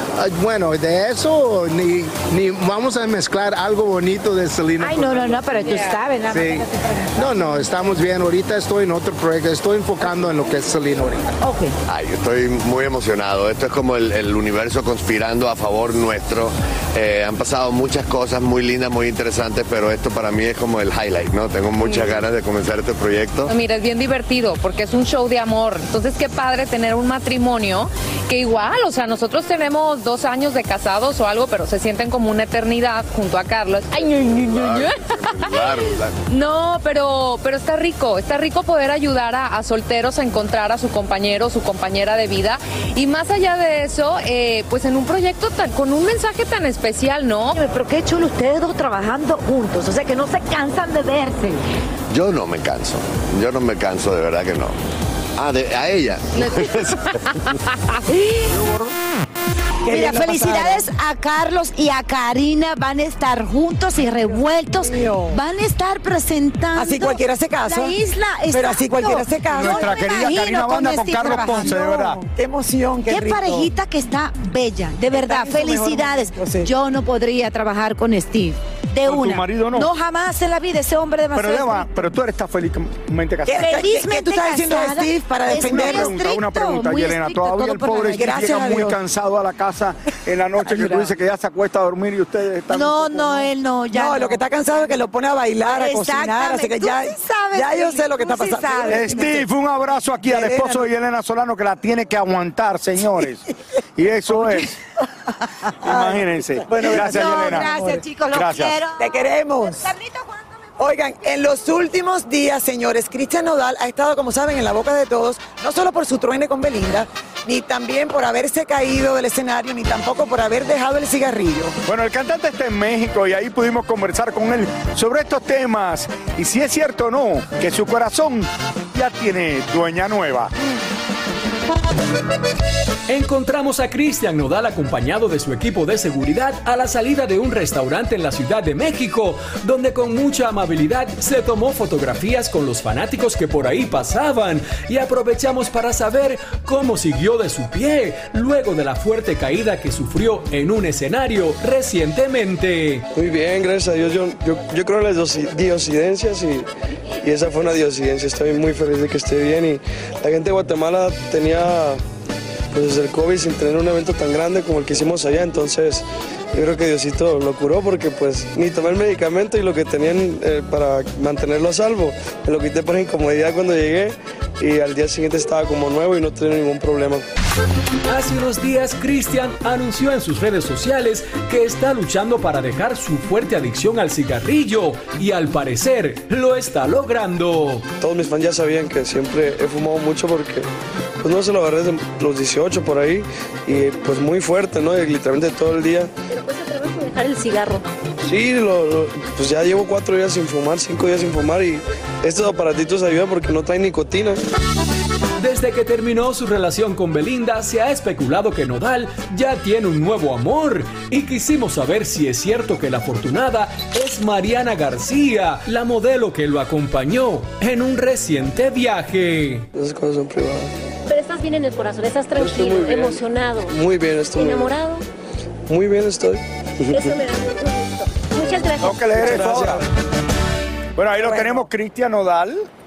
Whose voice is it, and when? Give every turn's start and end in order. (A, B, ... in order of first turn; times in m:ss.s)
0:00.2-0:05.6 A
0:04.8-0:07.1 B
0:06.3-0:11.3 A
0:11.4-0:11.8 B
0:11.9-0:23.5 C
0:21.9-0:22.2 D
0:23.5-0:47.6 D
0:34.0-0:36.2 C
0:47.5-0:51.6 B
0:52.1-0:54.8 C
0:55.4-0:57.0 C
0:58.1-0:58.6 B
0:59.8-1:00.8 E
0:59.9-1:12.2 B
1:04.8-1:05.4 E
1:06.8-1:08.0 E
1:08.5-1:09.8 E
1:09.5-1:12.2 F
1:12.3-1:13.7 E
1:13.1-1:21.9 B
1:15.1-1:16.7 E
1:19.0-1:19.9 F
1:21.4-1:23.7 F
1:23.5-1:26.2 E
1:23.5-1:28.4 B
1:25.5-1:33.5 F
1:28.2-1:29.0 E
1:30.6-1:31.1 E
1:32.7-1:34.4 B
1:33.9-1:39.5 E
1:35.6-1:39.4 B
1:38.9-1:43.4 F
1:40.2-1:40.9 E
1:44.0-1:44.8 F
1:45.8-1:48.8 F
1:45.8-1:48.0 E
1:46.7-1:50.7 B
1:49.0-1:49.9 E
1:50.8-2:01.8 E
2:01.9-2:10.5 F
2:13.1-2:33.0 G
2:33.1-2:36.7 H
2:37.2-2:42.0 H
2:42.7-2:57.2 H
2:58.1-3:07.8 G
3:08.0-3:10.7 H
3:11.2-3:16.1 H
3:16.3-3:17.8 I
3:18.2-3:24.4 H
3:25.4-3:39.7 G
3:39.7-3:40.7 H
3:41.1-3:43.8 I
3:42.4-3:44.8 H
3:44.3-3:45.0 I
3:45.7-3:47.0 H
3:46.9-3:49.3 I
3:48.8-3:49.8 F
3:49.2-3:49.8 H
3:51.0-3:52.7 F
3:51.2-3:51.7 E